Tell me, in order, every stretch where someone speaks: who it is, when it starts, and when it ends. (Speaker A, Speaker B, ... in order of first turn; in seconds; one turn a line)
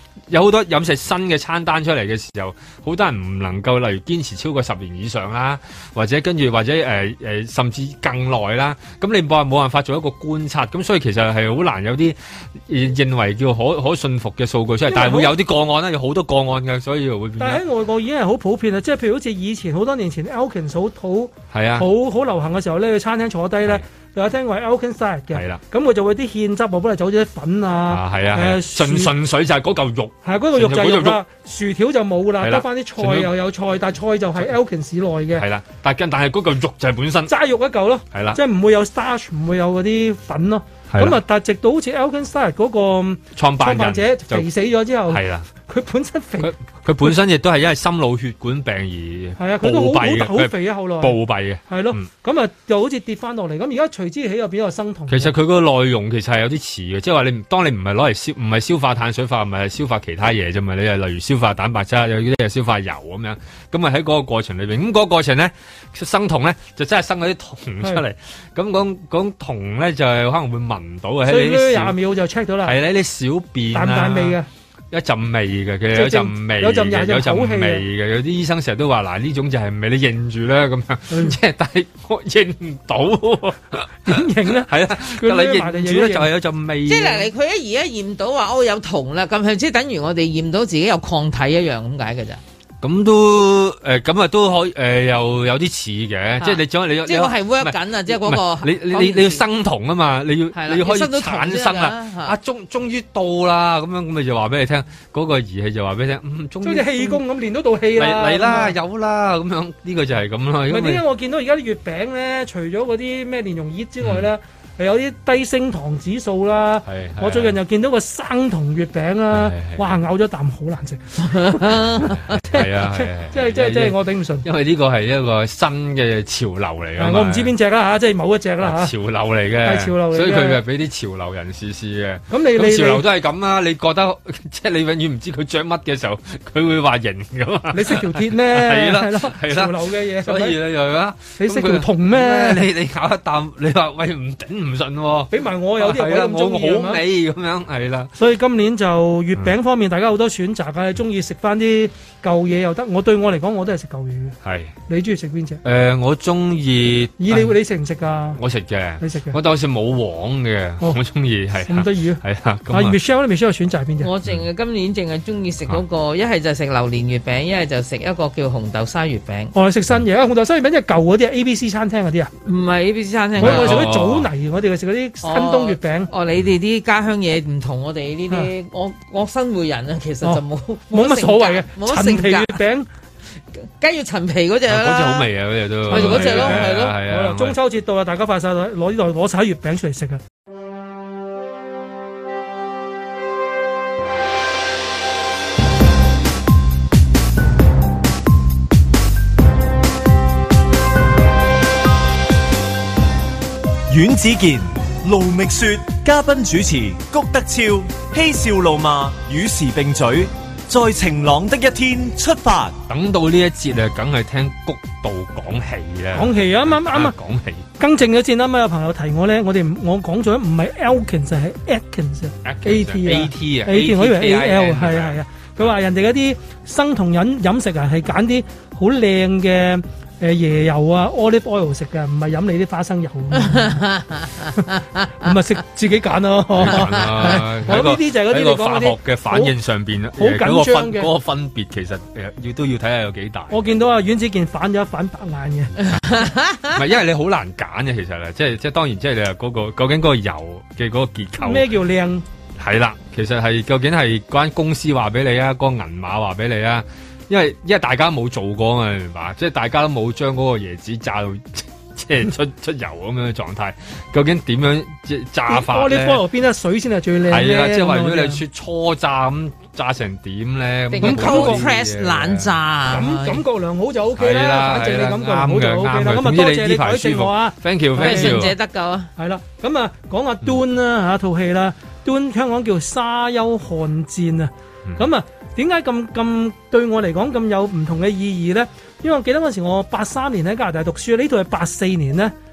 Speaker A: 0.3-17.6
Speaker B: 14.9-15.3
Speaker B: 17.4-29.1
Speaker A: 21.5-21.9
Speaker A: 25.3-25.6
Speaker A: 27.9-31.2
Speaker B: 30.2-35.5
Speaker A: 32.4-33.3
Speaker A: 35.3-37.3
Speaker B: 37.3-46.5
Speaker A: 38.1-38.4
Speaker A: 40.9-41.2
Speaker A: 43.3-44.5
Speaker A: 45.1-45.5
Speaker A: 46.4-52.1
Speaker B: 49.4-51.2
Speaker B: 51.7-55.3
Speaker A: 55.1-71.9
Speaker B: 71.2-72.8
Speaker A: 72.6-74.4
Speaker B: 73.7-74.5
Speaker A: 74.9-87.3
Speaker B: 75.9-77.8
Speaker B: 81.1-81.4
Speaker B: 84.0-86.3
Speaker C: 86.9-92.4
Speaker A: 92.8-107.2
Speaker C: 96.4-99.4
Speaker C: 100.5-102.3
Speaker B: 106.6-108.7
Speaker A: 107.9-111.0
Speaker B: 110.7-121.8
Speaker A: 114.0-114.3
Speaker A: 116.8-117.6
Speaker A: 119.3-119.8
Speaker C: 121.5-122.1
Speaker A: 122.1-127.5
Speaker B: 122.4-124.5
Speaker B: 127.0-128.9
Speaker A: 128.6-148.1
Speaker B: 129.6-130.6
Speaker B: 132.3-133.0
Speaker B: 137.7-140.6
Speaker B: 141.4-142.7
Speaker B: 145.3-147.0
Speaker B: 148.2-154.3
Speaker A: 154.4-154.7
Speaker B: 154.9-155.6
Speaker A: 155.6-157.5
Speaker B: 157.2-158.4
Speaker A: 158.3-163.0
Speaker B: 159.0-159.4
Speaker B: 161.6-164.1
Speaker C: 164.0-169.5
Speaker B: 169.5-172.3
Speaker C: 172.4-173.9
Speaker A: 173.4-174.3
Speaker B: 173.4-176.1
Speaker C: 175.2-182.6
Speaker B: 180.2-182.9
Speaker C: 183.6-185.3
Speaker A: 184.7-187.6
Speaker C: 185.9-186.9
Speaker B: 185.9-190.2
Speaker D: 203.9-212.8
Speaker A: 212.9-217.7
Speaker B: 216.1-217.1
Speaker B: 217.8-233.8
Speaker A: 222.4-225.7
Speaker C: 233.4-234.6
Speaker B: 235.2-239.5
Speaker A: 236.6-243.7
Speaker B: 240.2-241.1
Speaker B: 243.5-245.8
Speaker C: 245.8-246.8
Speaker A: 245.8-251.7
Speaker B: 251.4-252.2
Speaker A: 252.6-266.2
Speaker B: 265.5-268.4
Speaker A: 267.3-272.5
Speaker C: 270.9-273.4
Speaker B: 271.0-271.7
Speaker B: 272.9-278.5
Speaker A: 274.1-278.5
Speaker C: 278.0-279.1
Speaker B: 279.2-292.3